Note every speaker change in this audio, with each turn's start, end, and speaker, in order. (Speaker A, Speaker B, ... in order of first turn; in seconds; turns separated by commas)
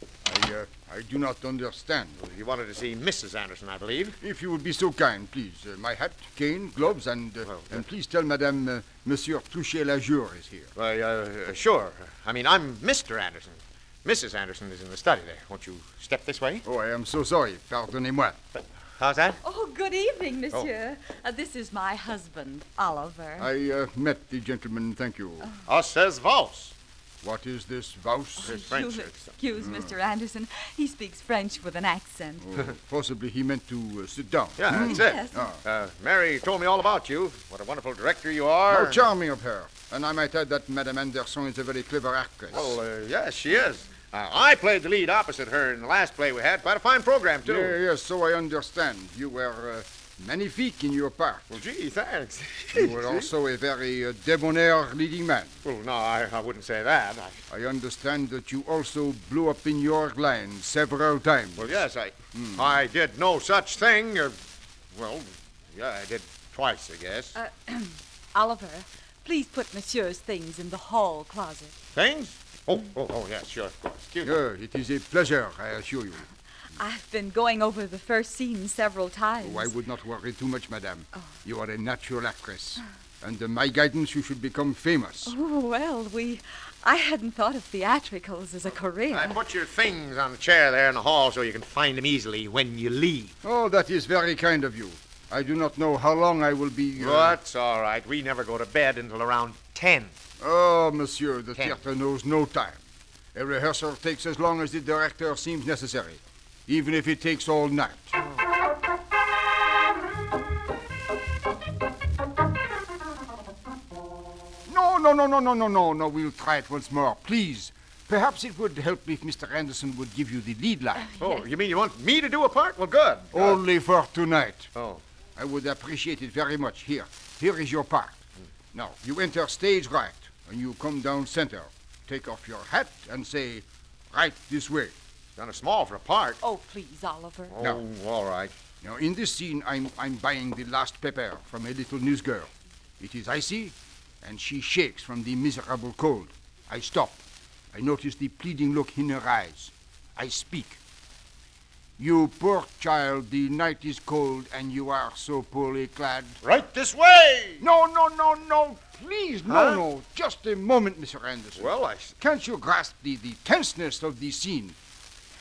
Speaker A: 0.2-2.2, Speaker B: 2.2-4.2, Speaker A: 4.2-10.7, Speaker B: 7.5-7.8, Speaker B: 10.8-16.6, Speaker A: 16.6-18.4, Speaker B: 18.6-19.4, Speaker C: 19.4-23.5, Speaker A: 23.4-25.5, Speaker B: 25.7-26.8, Speaker A: 27.2-28.6, Speaker C: 28.4-32.5, Speaker B: 28.4-29.3, Speaker A: 29.6-29.9, Speaker A: 32.4-35.6, Speaker B: 34.6-39.1, Speaker C: 34.7-35.5, Speaker A: 38.7-42.8, Speaker B: 42.5-47.8, Speaker A: 47.4-51.5, Speaker B: 51.5-53.3, Speaker A: 52.7-55.5, Speaker B: 55.6-57.4, Speaker A: 57.5-61.7, Speaker B: 61.6-64.4, Speaker A: 62.3-62.8, Speaker B: 64.9-67.3, Speaker C: 67.3-71.7, Speaker B: 72.0-74.4, Speaker A: 74.2-76.2, Speaker C: 76.8-79.7, Speaker A: 79.4-85.3, Speaker C: 85.2-89.4, Speaker B: 89.1-93.3, Speaker A: 93.4-97.4, Speaker B: 97.0-100.1, Speaker A: 100.4-102.8, Speaker A: 103.3-108.2, Speaker A: 114.7-121.1, Speaker B: 121.2-123.6, Speaker A: 123.3-124.7, Speaker B: 124.8-125.0, Speaker A: 125.4-128.2, Speaker A: 128.7-134.9, Speaker B: 135.4-136.4, Speaker C: 136.4-137.6, Speaker B: 137.5-138.5, Speaker A: 138.8-147.2, Speaker A: 147.7-150.8, Speaker A: 152.0-156.4, Speaker B: 156.4-157.7, Speaker A: 157.6-164.8, Speaker B: 159.5-159.8, Speaker B: 161.6-162.1